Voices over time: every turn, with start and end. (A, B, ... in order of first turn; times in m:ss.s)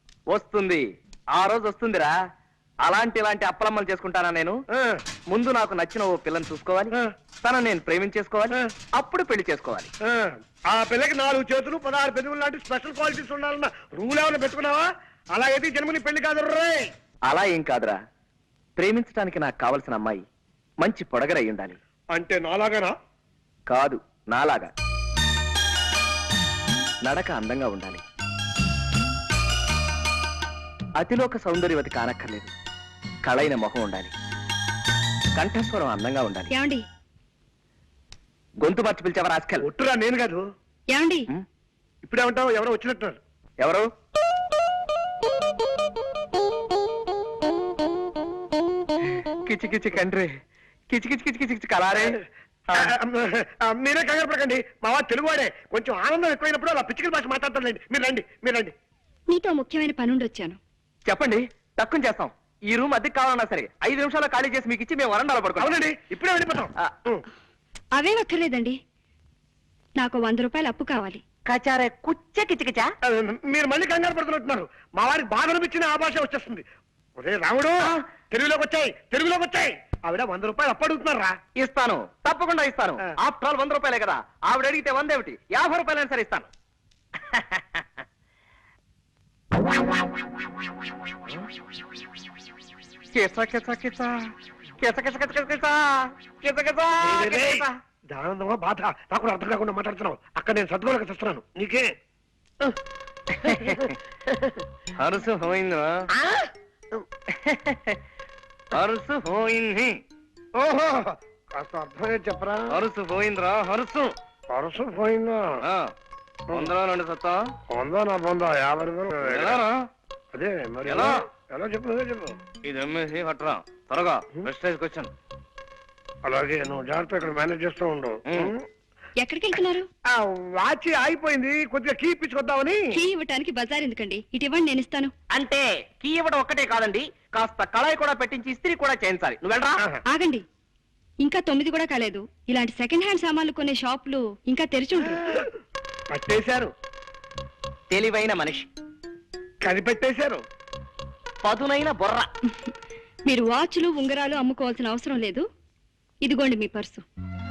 0:00.3-0:00.8 A
0:01.4-0:02.1 A
0:02.8-0:04.6 A
0:04.7-0:05.0 B
0:05.3-0:09.9 A
0:10.1-0:16.9 B
0:17.3-0:18.0 A
0:18.8-0:20.2 A
0:20.8-0:21.8 A
0:22.1-0:23.0 B
0:23.7-0:24.7 A
0:27.0-0:28.0 A
0:31.0-0:32.5 A
0:33.2-0:34.1 A
0:35.4-0:36.5 A
0:36.5-0:36.8 C
0:38.6-0:39.7 A
0:39.6-0:40.4 B
0:40.9-0:41.3 C
0:42.0-0:43.2 B
0:49.4-0:50.3 A
0:50.9-0:52.2 A
0:53.0-0:58.7 B
0:59.3-1:00.6 C
1:01.1-1:05.8 A
1:05.6-1:07.2 B
1:08.0-1:08.8 C
1:10.0-1:11.2 C
1:11.5-1:12.9 A
1:13.0-1:16.6 B
1:17.2-1:17.8 B
1:18.3-1:21.3 B
1:21.6-1:26.5 A
1:27.3-1:27.8 A
1:33.1-1:34.2 A
1:34.8-1:37.7 A
1:37.0-1:41.8 B
1:43.4-1:43.9 A
1:45.0-1:46.1 A
1:47.4-1:48.0 A
1:48.7-1:50.0 A
1:50.6-1:52.7 B
1:52.7-1:54.1 A
1:54.5-1:55.6 B
1:55.6-1:55.9 A
1:56.5-1:57.5 A
1:57.7-1:59.6 B
1:59.2-1:59.9 A
2:00.3-2:02.4 B
2:00.9-2:01.2 A
2:02.6-2:05.1 A
2:06.3-2:08.6 B
2:09.2-2:09.9 C
2:10.1-2:13.0 B
2:12.9-2:15.1 C
2:15.3-2:19.8 A
2:20.1-2:20.4 C
2:21.2-2:25.4 C
2:26.1-2:26.7 B
2:27.9-2:28.7 A
2:29.6-2:30.4 B
2:31.4-2:32.3 A
2:33.3-2:35.4 C
2:36.2-2:37.0 C